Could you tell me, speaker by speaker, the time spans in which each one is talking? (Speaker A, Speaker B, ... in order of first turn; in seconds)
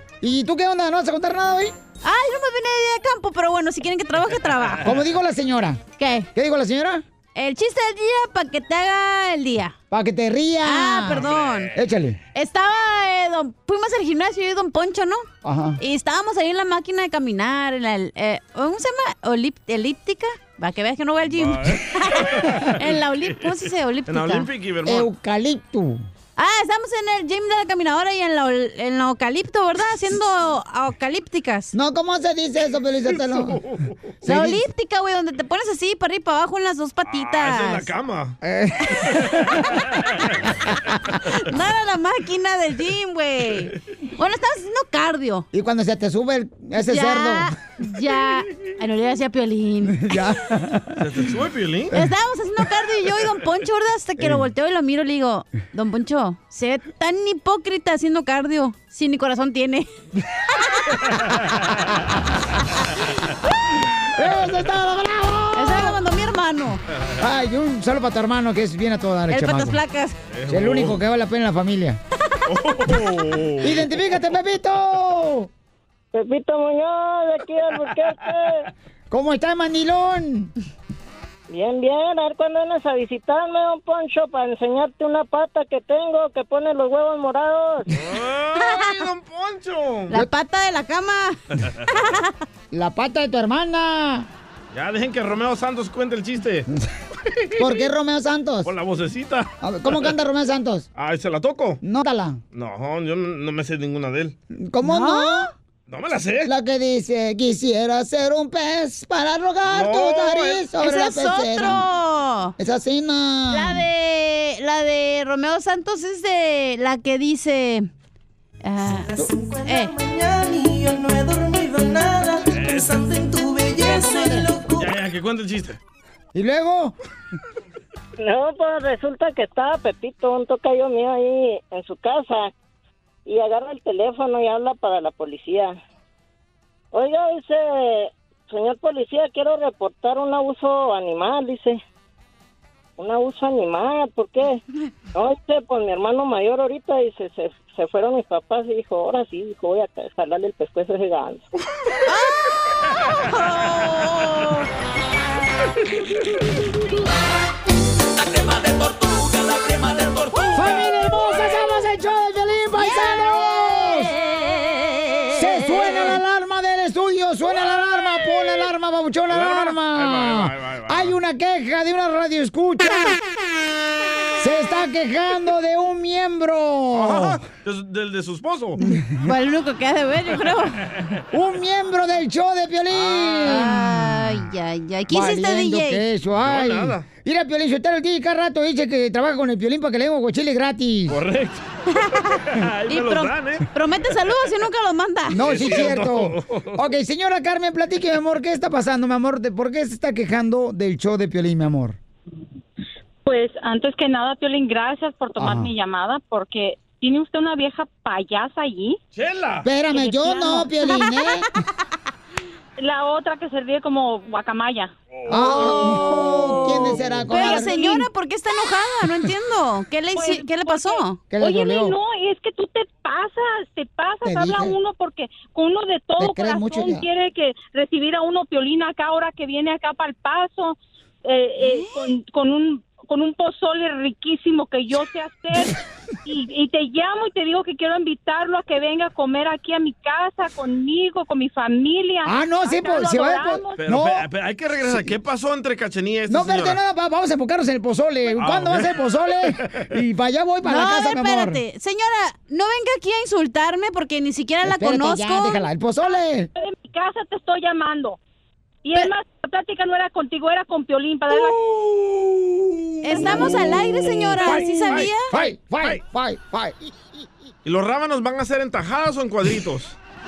Speaker A: 0.2-1.7, 4.8-5.8, 6.3-7.0, 9.9-12.2, 15.4-15.8, 24.8-26.1, 31.7-33.6, 34.2-34.6, 38.4-39.7, 45.5-47.5, 49.9-51.1, 64.1-66.0, 67.2-69.8, 70.5-72.0, 73.6-75.5, 79.1-80.5, 92.7-94.3, 97.6-98.7, 99.6-100.9, 101.8-102.4, 104.5-105.5, 106.4-111.8, 112.6-113.8, 123.9-124.5, 126.3-126.9, 160.5-164.1, 165.3-173.2, 174.4-177.4, 178.8-179.1, 181.3-184.3, 185.1-191.2, 195.3-202.0, 205.4-205.7, 209.6-211.5, 215.3-217.8, 221.3-221.9, 224.2-224.8, 226.2-227.1, 242.2-244.3, 244.8-245.2, 246.3-251.6, 254.6-256.5, 263.1-263.8, 264.4-266.9
Speaker B: 2.0-5.0, 6.0-6.3, 7.3-9.7, 10.6-11.7, 12.3-15.3, 15.8-24.5, 26.4-31.7, 34.2-37.9, 41.4-45.5, 46.8-50.2, 51.9-59.9, 65.5-66.8, 69.3-70.2, 88.6-88.8, 90.1-92.3, 104.8-105.5, 110.8-112.5, 113.5-117.9, 118.6-120.0, 123.8-124.1, 152.1-152.5, 153.0-154.7, 162.8-163.2, 179.2-180.8, 183.4-186.0, 191.9-195.4, 215.6-221.2, 250.6-255.6, 263.0-265.3
Speaker C: 11.2-11.7, 21.3-23.6, 24.1-25.1, 33.1-34.0, 37.1-38.3, 51.0-51.9, 70.3-71.0, 72.5-73.9, 88.0-90.1, 94.7-96.7, 98.6-100.1, 101.0-101.8, 102.5-104.3, 105.9-106.5, 109.7-110.6, 122.5-123.0, 124.7-125.8, 169.3-171.2, 176.9-178.8, 182.9-183.5, 186.4-187.1, 191.1-191.7, 192.4-193.7, 195.4-196.8, 209.1-209.7, 215.1-215.9, 243.8-246.8, 248.3-249.0, 261.6-262.4, 263.1-265.1, 267.6-269.9
Speaker D: 76.1-78.7, 81.5-87.9, 128.2-132.5, 133.2-135.7, 136.9-141.8, 143.0-144.6, 145.1-151.4
Speaker E: 158.2-160.7
Speaker F: 203.2-209.0, 209.9-211.0, 212.8-214.9, 217.3-218.0, 220.1-243.8, 256.5-258.2, 258.8-261.6